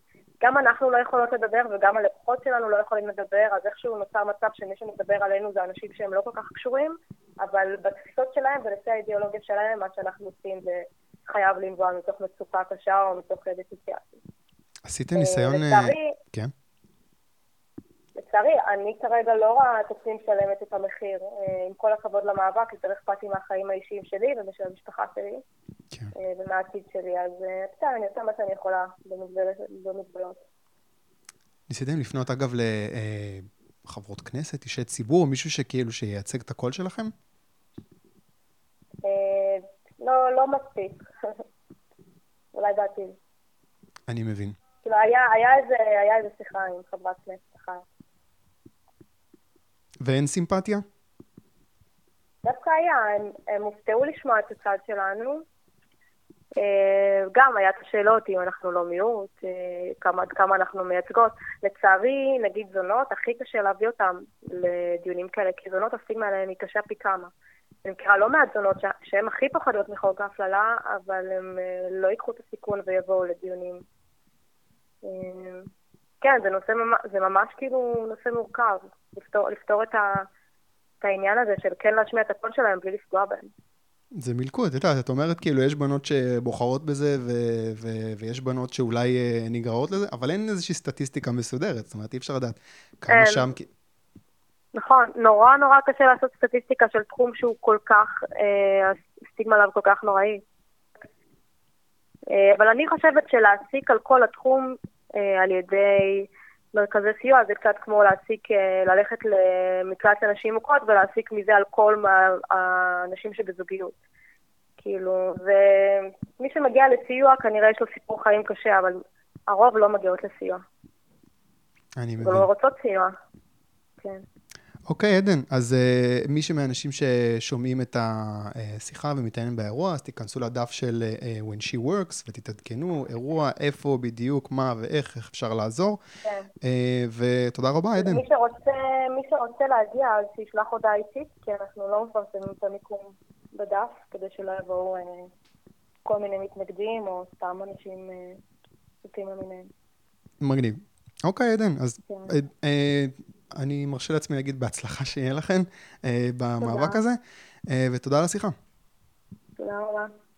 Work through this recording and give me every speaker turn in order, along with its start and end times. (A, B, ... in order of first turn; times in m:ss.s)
0:00.4-0:14.2 A
0:14.9-0:16.5 B
0:15.2-0:16.2 A
0:18.1-0:25.4 A
0:26.1-0:30.4 A
0:31.7-0:37.1 B
0:39.0-0:41.4 A
0:42.5-0:43.2 A
0:44.1-0:44.6 B
0:44.8-0:47.8 A
0:50.0-0:50.8 B
0:52.4-0:55.4 A
0:56.6-1:07.3 A
1:07.8-1:13.8 A
1:15.0-1:20.3 A
1:21.0-1:23.5 A
1:24.2-1:33.6 B
1:33.1-1:33.5 A
1:34.7-1:40.4 A
1:42.3-1:53.9 A
1:54.8-2:00.6 A
2:02.0-2:02.5 B
2:02.2-2:03.1 A
2:04.9-2:16.0 B
2:16.2-2:16.5 A
2:16.6-2:18.2 B
2:18.0-2:25.3 A
2:26.0-2:28.4 A
2:29.0-2:29.7 A
2:30.4-2:38.5 B
2:32.1-2:32.4 A
2:36.6-2:37.0 A
2:39.6-2:40.1 A